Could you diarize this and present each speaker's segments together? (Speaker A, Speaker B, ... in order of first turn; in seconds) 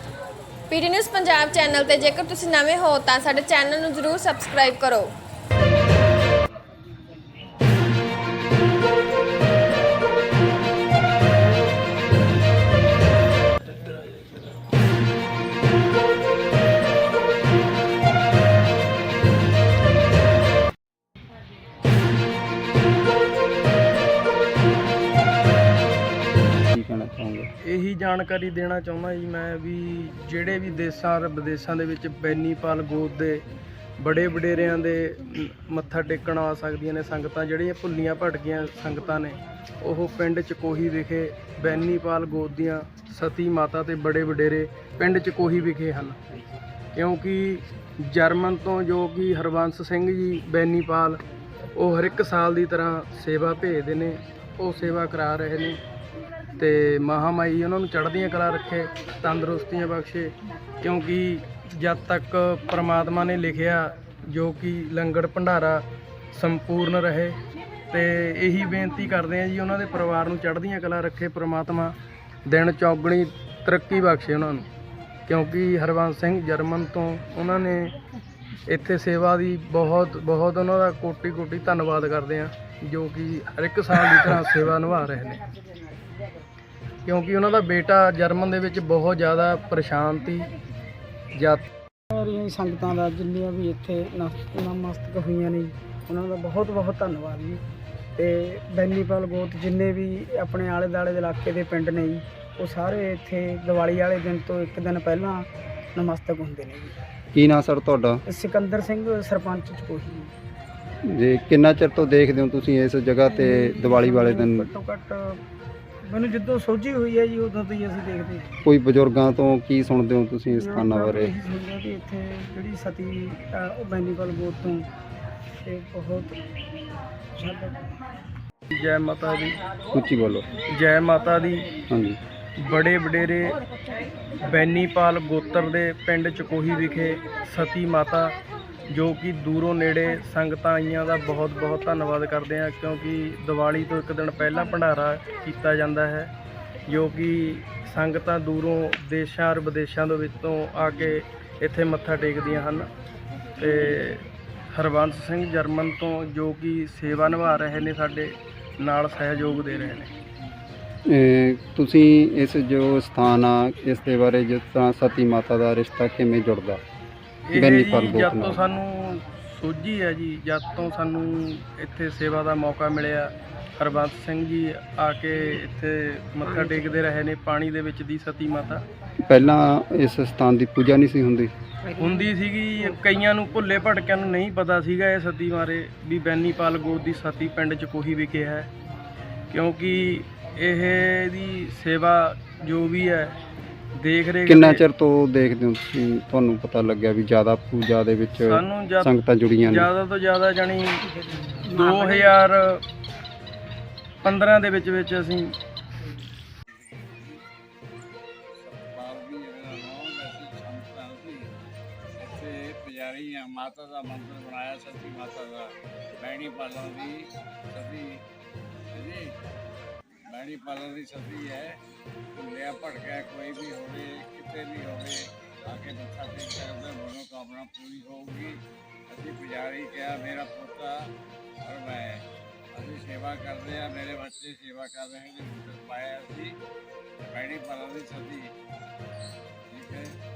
Speaker A: 0.7-5.1
Speaker B: 26.7-27.5, 107.3-108.2, 111.0-114.7, 118.6-121.3, 129.9-130.5, 131.9-132.2, 161.1-166.8, 167.5-168.6, 179.2-181.5, 194.5-199.9
Speaker C: 27.6-33.4, 34.0-46.2, 46.9-51.2, 51.7-55.8, 56.6-67.4, 67.9-74.7, 75.3-77.9, 78.7-85.4, 87.0-90.5, 91.3-91.7, 128.7-129.6, 130.7-131.7, 132.6-133.6, 134.4-138.3, 138.9-146.3, 146.9-152.9, 153.6-160.1, 167.5-178.8, 181.9-188.7, 189.5-193.3, 194.0-194.8, 198.4-199.1, 199.6-201.0, 201.7-202.8, 204.2-205.5
Speaker D: 92.1-97.6, 98.2-107.0, 108.3-110.3, 113.3-115.4, 116.1-118.5, 120.5-124.8, 125.6-126.3, 127.3-127.8, 201.8-202.3
Speaker E: 206.7-207.4, 208.6-211.5, 212.2-218.2, 218.9-219.3, 220.3-221.8, 222.3-228.5, 229.1-230.9, 231.6-236.5, 237.2-238.5, 239.7-240.1